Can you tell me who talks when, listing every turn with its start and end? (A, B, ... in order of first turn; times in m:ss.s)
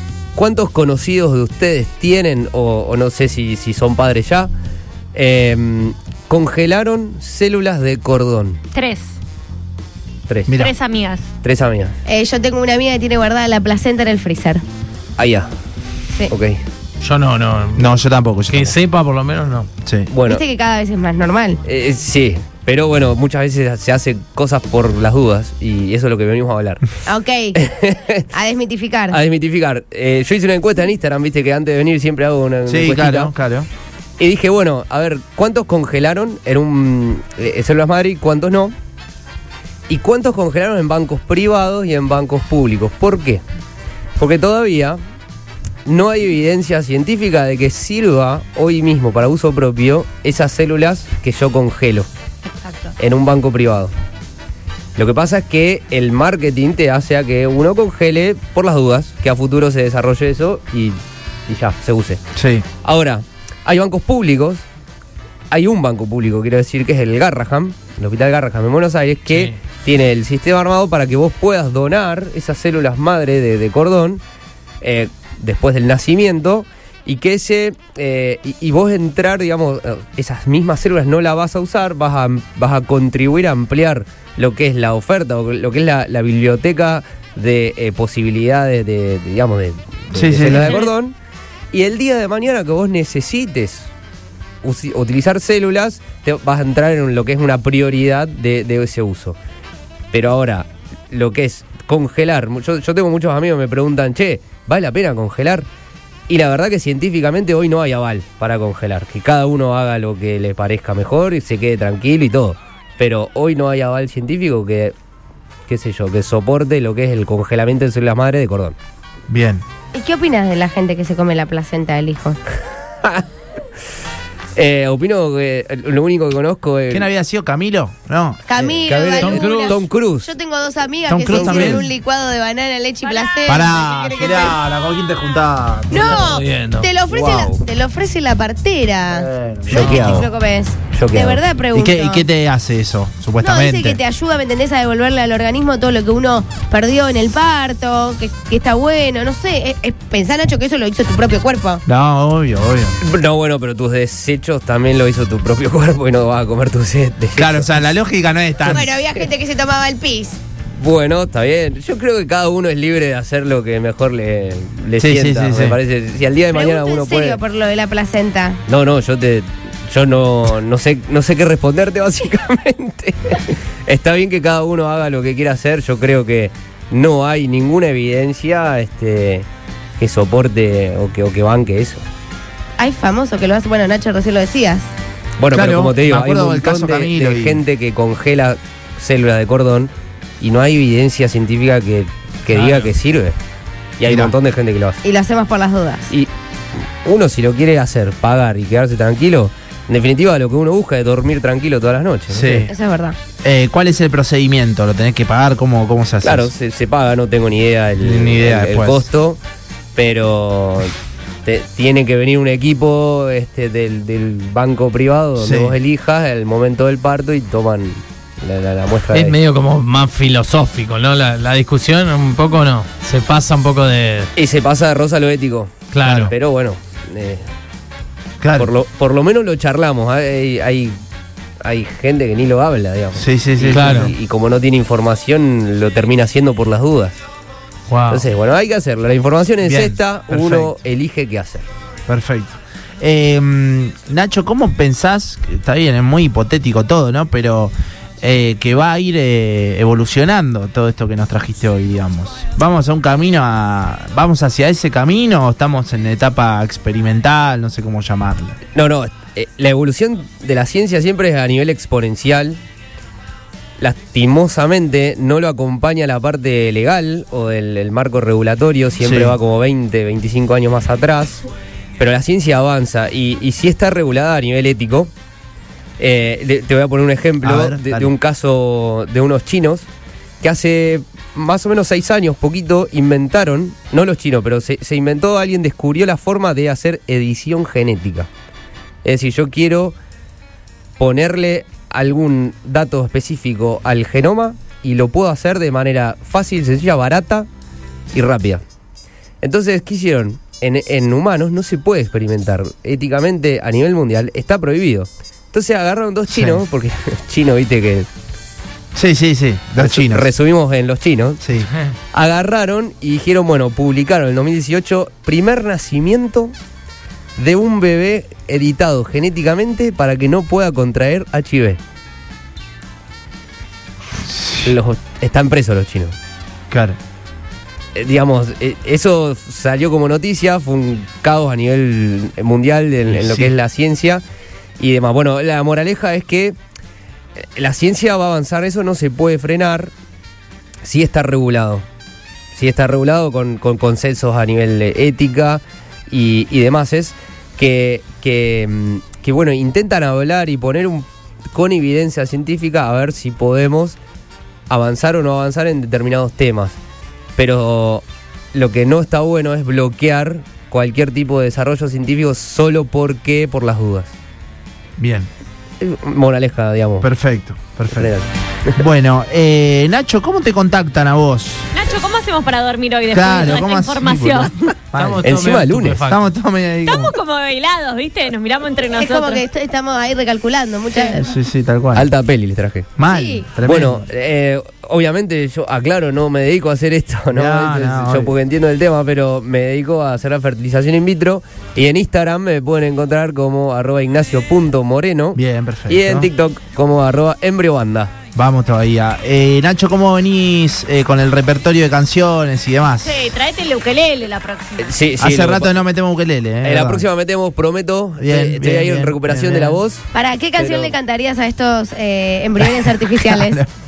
0:00.4-0:04.5 A
0:05.1-0:08.6 A
0:08.7-0:09.2 B
0:10.3-0:10.6 A
0:10.5-0:10.7 C
0:10.5-0:11.3 B
0:11.4-0:12.0 A
0:12.1-0:14.6 D
0:15.2-0:15.5 A
0:16.3-0:16.6 A
0:17.0-0:17.9 E
0:17.8-0:18.8 C
0:18.5-0:19.7 E
0:19.8-0:20.1 C
0:20.1-0:20.4 A
0:20.3-0:21.6 D
0:21.6-0:26.8 A
0:27.1-0:27.6 D
0:27.6-0:28.2 A
0:28.3-0:29.2 D
0:29.1-0:33.3 A
0:32.7-0:33.7 C
0:34.2-0:38.8 A
0:39.9-0:43.4 A
0:44.2-0:45.0 A
0:45.8-0:52.1 A
0:52.5-0:52.9 B
0:53.0-0:53.9 A
0:55.0-1:02.2 A
1:02.4-1:02.6 C
1:02.8-1:04.6 A
1:05.5-1:14.2 A
1:09.3-1:09.6 E
1:14.8-1:31.2 A
1:30.1-1:30.8 C
1:30.4-1:30.9 B
1:31.7-1:33.9 A
1:34.6-1:39.4 A
1:40.1-1:45.7 A
1:46.3-1:54.9 A
1:55.7-1:58.8 A
1:59.3-1:59.6 C
1:59.9-2:02.4 D
2:04.6-2:07.1 A
2:06.9-2:08.4 C
2:08.5-2:14.6 D
2:08.6-2:10.3 A
2:09.1-2:09.8 E
2:11.1-2:11.9 C
2:11.3-2:11.8 A
2:13.5-2:16.2 C
2:15.9-2:22.3 D
2:16.0-2:16.9 E
2:17.2-2:17.6 A
2:19.1-2:20.3 C
2:19.7-2:20.3 A
2:20.9-2:21.4 A
2:21.7-2:24.0 C
2:23.4-2:31.8 D
2:31.9-2:33.0 C
2:33.0-2:37.9 A
2:37.4-2:38.9 C
2:38.7-2:40.4 D
2:40.7-2:47.4 A
2:45.0-2:45.8 C
2:46.5-2:48.6 D
2:48.7-2:59.5 A
3:00.0-3:02.0 A
3:02.8-3:04.9 D
3:05.4-3:13.4 A
3:05.5-3:07.6 C
3:12.5-3:12.9 E
3:14.0-3:15.0 A
3:14.1-3:14.4 C
3:15.0-3:16.1 D
3:16.1-3:22.7 A
3:22.3-3:22.7 C
3:22.7-3:23.2 D
3:23.4-3:26.5 C
3:26.2-3:29.4 A
3:28.0-3:29.1 C
3:30.0-3:30.9 A
3:31.4-3:39.4 A
3:35.4-3:35.8 C
3:39.1-3:44.3 E
3:44.4-3:47.5 A
3:45.9-3:46.3 E
3:46.0-3:46.3 C
3:48.4-3:48.7 C
3:48.5-3:51.0 A
3:51.6-3:57.2 A
3:53.2-3:54.1 C
3:53.7-3:54.1 E
3:57.9-3:58.2 E
3:58.1-4:01.7 A
3:59.6-4:00.8 C
4:02.1-4:18.6 C
4:18.7-4:22.6 A
4:23.8-4:31.4 A
4:29.0-4:29.4 C
4:32.0-4:35.1 A
4:36.0-4:39.9 A
4:37.4-4:38.1 C
4:40.4-4:48.3 A
4:49.0-4:50.0 A
4:51.0-4:57.5 A
4:58.1-4:58.6 A
4:59.4-5:08.1 A
5:06.3-5:06.6 C
5:08.9-5:10.3 C
5:09.8-5:11.4 A
5:11.4-5:11.7 C
5:12.1-5:16.5 A
5:17.4-5:21.8 A
5:24.3-5:24.7 C
5:24.6-5:26.2 A
5:26.7-5:27.0 C
5:28.0-5:34.2 A
5:33.1-5:33.5 C
5:34.8-5:36.6 A
5:37.6-5:39.9 A
5:40.8-5:41.8 A
5:42.5-5:54.0 A
5:54.7-5:56.8 A
5:57.4-6:04.1 A
6:05.0-6:05.3 C
6:05.8-6:07.1 A
6:07.0-6:08.1 C
6:07.9-6:08.8 A
6:08.8-6:11.7 C
6:11.7-6:14.5 B
6:13.1-6:15.4 C
6:14.9-6:16.3 E
6:15.2-6:16.0 A
6:16.0-6:17.2 C
6:16.8-6:19.4 B
6:19.0-6:21.3 D
6:21.1-6:22.1 C
6:22.0-6:22.9 A
6:23.0-6:24.1 C
6:23.1-6:23.5 D
6:23.6-6:38.1 A
6:27.3-6:28.3 C
6:35.4-6:36.3 C
6:38.4-6:43.3 C
6:43.0-6:45.0 B
6:44.8-6:45.8 A
6:45.2-6:47.1 C
6:46.6-6:51.0 A
6:48.2-6:49.8 C
6:50.1-6:53.6 D
6:53.2-6:53.7 C